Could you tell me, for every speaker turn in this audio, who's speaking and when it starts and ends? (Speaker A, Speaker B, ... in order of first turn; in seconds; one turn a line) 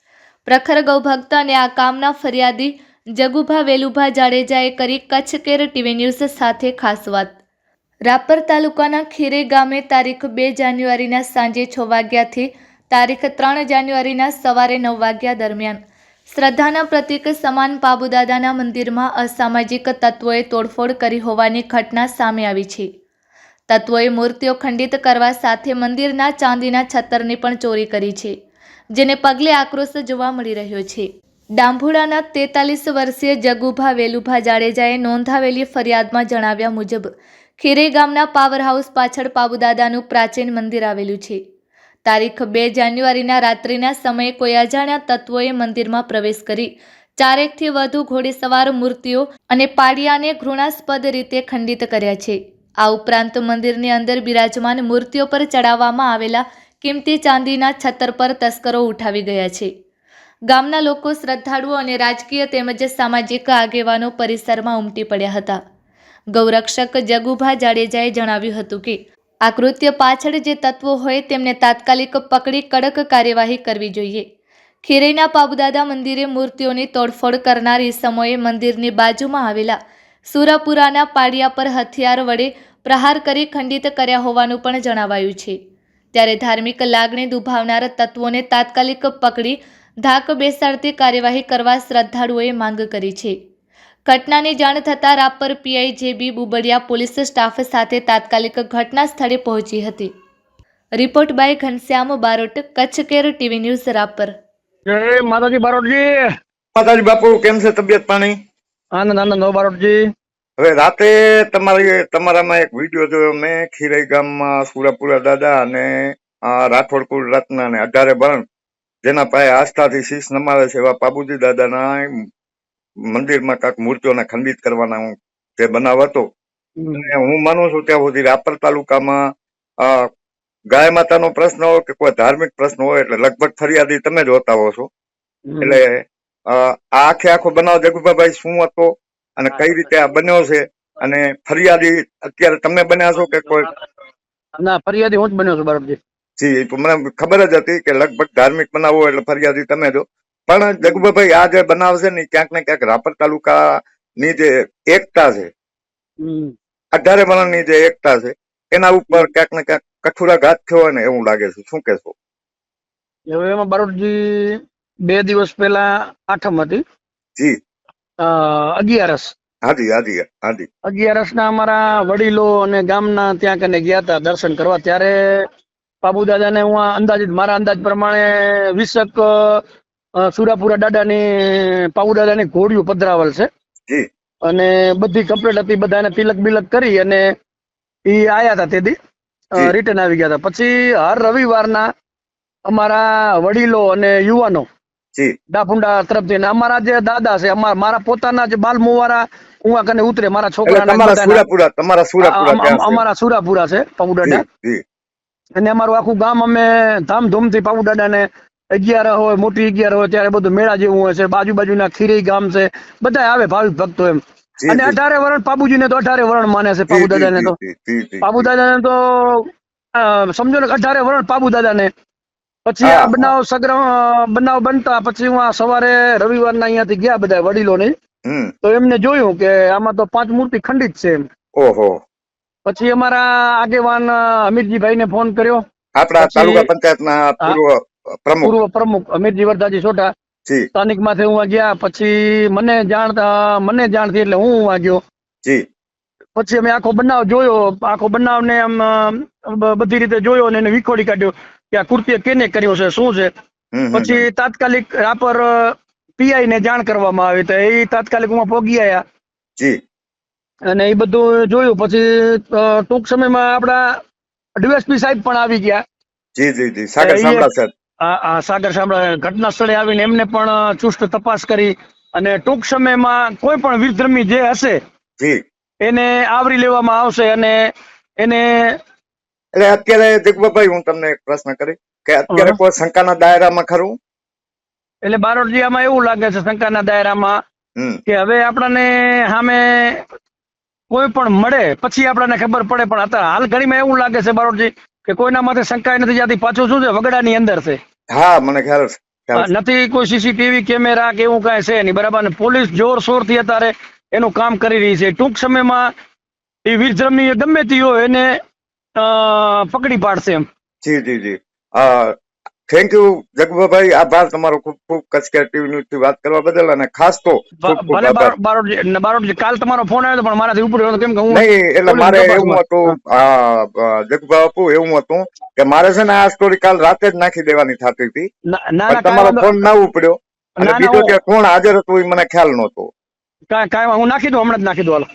Speaker A: 0.5-7.4
Speaker A: 8.1-15.8
Speaker A: 16.3-22.9
Speaker A: 23.7-28.3
Speaker A: 28.9-31.1
Speaker A: 31.6-41.4
Speaker A: 42.0-59.7
Speaker A: 60.5-65.6
Speaker A: 66.3-74.2
Speaker A: 74.8-79.8
Speaker A: 80.3-85.6
Speaker A: 86.1-93.3
Speaker A: 94.1-100.1
Speaker A: 101.0-104.3
Speaker B: 104.9-106.1
Speaker C: 106.8-108.4
Speaker B: 109.0-110.0
Speaker C: 110.6-118.4
Speaker C: 119.0-122.1
Speaker C: 123.1-126.3
Speaker B: 126.8-127.1
Speaker C: 127.0-129.3
Speaker C: 129.8-130.1
Speaker C: 130.7-134.9
Speaker B: 135.5-135.8
Speaker C: 135.6-143.7
Speaker B: 139.5-139.8
Speaker B: 144.6-146.0
Speaker C: 146.4-153.6
Speaker C: 154.2-155.5
Speaker B: 156.2-156.5
Speaker C: 156.9-162.2
Speaker B: 163.3-166.8
Speaker B: 168.2-169.3
Speaker C: 169.7-170.7
Speaker B: 170.8-175.4
Speaker B: 176.0-179.6
Speaker B: 180.2-183.5
Speaker B: 184.5-187.2
Speaker B: 188.1-188.9
Speaker B: 189.5-191.9
Speaker B: 192.7-194.7
Speaker B: 195.5-201.4
Speaker C: 200.7-203.0
Speaker B: 202.2-204.4
Speaker C: 204.2-204.8
Speaker B: 205.6-217.5
Speaker C: 214.6-215.0
Speaker C: 216.9-218.5
Speaker B: 218.2-221.9
Speaker B: 222.7-227.9
Speaker C: 222.8-223.3
Speaker C: 228.3-228.5
Speaker B: 228.6-231.2
Speaker C: 231.6-232.0
Speaker B: 232.7-235.6
Speaker C: 236.0-238.6
Speaker B: 236.2-236.7
Speaker B: 238.4-240.1
Speaker B: 240.8-245.0
Speaker B: 246.4-253.3
Speaker C: 253.7-254.2
Speaker B: 253.9-259.0
Speaker B: 260.7-263.9
Speaker B: 264.6-265.8
Speaker C: 266.4-267.7
Speaker B: 267.0-267.5
Speaker B: 268.1-274.8
Speaker B: 275.8-277.6
Speaker B: 278.2-278.8
Speaker C: 279.6-284.0
Speaker B: 282.3-282.6
Speaker B: 285.0-287.4
Speaker B: 288.1-290.0
Speaker B: 290.9-297.8
Speaker C: 298.1-299.5
Speaker B: 299.4-305.9
Speaker B: 306.6-308.3
Speaker B: 309.0-310.4
Speaker C: 310.8-312.2
Speaker C: 312.7-318.3
Speaker B: 317.6-323.0
Speaker C: 321.3-328.3
Speaker B: 328.5-329.5
Speaker C: 328.9-332.9
Speaker B: 330.6-331.2
Speaker B: 333.5-335.1